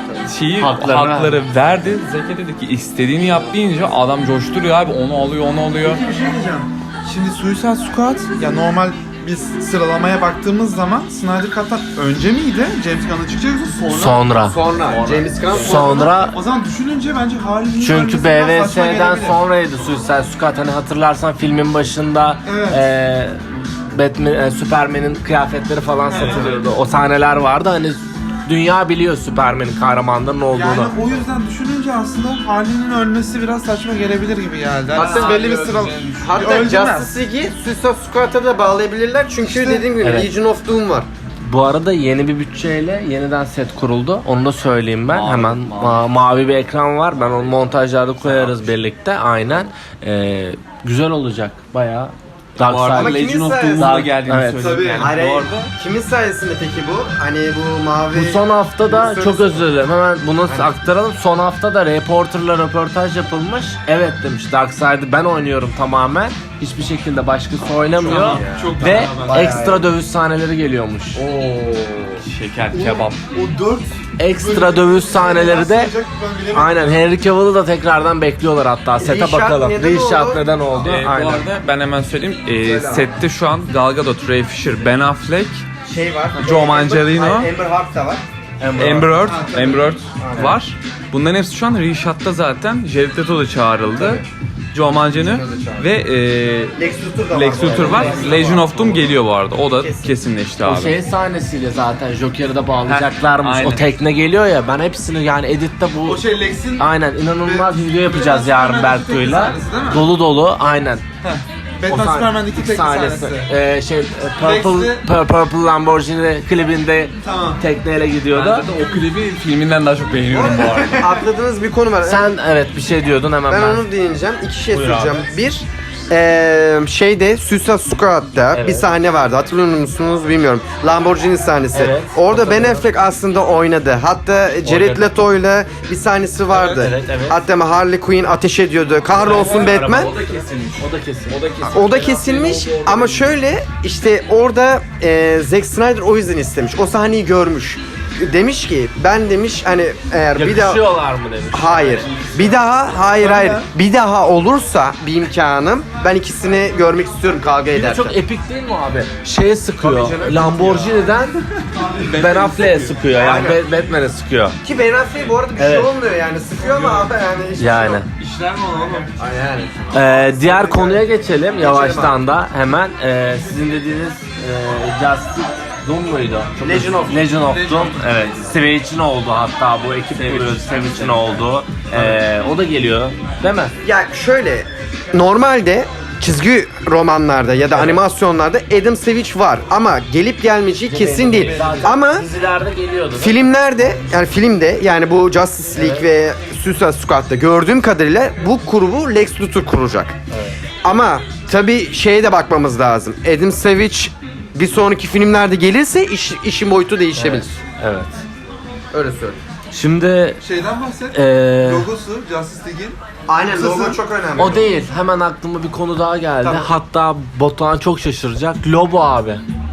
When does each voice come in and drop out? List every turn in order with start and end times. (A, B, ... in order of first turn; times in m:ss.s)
0:00.2-0:06.0 A
0:00.6-0:01.4 B
0:05.8-0:14.2 C
0:13.9-0:14.6 B
0:14.4-0:16.3 D
0:14.8-0:16.1 A
0:15.5-0:16.4 B
0:15.8-0:19.4 C
0:17.8-0:23.4 B
0:22.4-0:22.8 C
0:23.9-0:31.1 B
0:26.1-0:26.7 C
0:30.5-0:37.1 C
0:34.9-0:36.2 A
0:34.9-0:41.1 D
0:39.4-0:39.9 C
0:40.0-0:40.3 B
0:41.4-0:53.2 B
0:45.1-0:46.1 A
0:48.2-0:48.7 A
0:52.6-0:55.7 A
0:52.9-0:54.1 D
0:53.8-0:54.7 B
0:54.6-0:55.2 C
0:55.0-0:59.7 D
0:58.1-1:11.2 B
1:00.4-1:00.8 D
1:07.9-1:08.6 D
1:08.0-1:09.6 C
1:08.1-1:09.2 A
1:09.2-1:09.9 D
1:11.2-1:12.2 D
1:12.2-1:13.2 A
1:12.7-1:17.1 C
1:14.2-1:15.9 B
1:16.5-1:21.5 B
1:19.0-1:20.4 D
1:20.8-1:25.6 A
1:22.6-1:23.1 D
1:25.8-1:28.2 D
1:26.4-1:27.5 A
1:28.6-1:29.2 B
1:28.8-1:36.8 A
1:29.1-1:29.9 C
1:30.2-1:30.6 D
1:34.0-1:34.2 D
1:34.9-1:35.9 D
1:36.8-1:38.7 D
1:37.3-1:41.0 A
1:37.6-1:39.0 B
1:38.0-1:38.4 C
1:39.8-1:40.1 D
1:40.6-1:51.0 B
1:42.8-1:43.9 A
1:46.0-1:46.9 C
1:47.4-1:50.1 C
1:51.2-1:53.5 C
1:51.9-1:58.7 B
1:54.4-1:55.0 C
1:57.2-1:57.6 C
1:58.3-2:01.0 A
2:00.3-2:02.3 D
2:02.0-2:03.8 B
2:03.5-2:20.1 D
2:04.7-2:05.2 B
2:08.5-2:08.9 B
2:11.7-2:12.8 B
2:14.6-2:15.2 B
2:16.6-2:17.4 B
2:19.2-2:20.2 B
2:19.2-2:23.3 A
2:20.8-2:21.4 B
2:21.6-2:30.8 D
2:30.3-2:32.1 B
2:31.5-2:38.2 D
2:31.9-2:33.0 A
2:33.0-2:33.6 C
2:37.7-2:41.4 B
2:39.8-2:41.1 D
2:41.7-2:42.9 C
2:42.1-2:42.9 A
2:42.1-2:44.6 B
2:43.1-2:43.6 D
2:44.6-2:48.0 D
2:45.6-2:45.9 B
2:46.6-2:47.1 C
2:47.6-2:48.1 B
2:48.2-2:49.1 C
2:49.2-2:52.2 D
2:49.9-3:03.7 B
2:56.6-2:57.2 D
2:57.4-2:58.1 C
3:03.8-3:12.3 D
3:07.7-3:08.0 B
3:10.9-3:14.1 B
3:11.4-3:11.9 C
3:13.2-3:20.2 D
3:15.7-3:16.0 B
3:20.3-3:20.6 B
3:20.8-3:27.6 D
3:27.2-3:28.2 B
3:28.9-3:29.4 D
3:29.7-3:30.4 B
3:30.4-3:33.0 C
3:31.1-3:31.9 B
3:33.3-3:34.7 D
3:33.5-3:34.0 C
3:34.4-3:39.4 B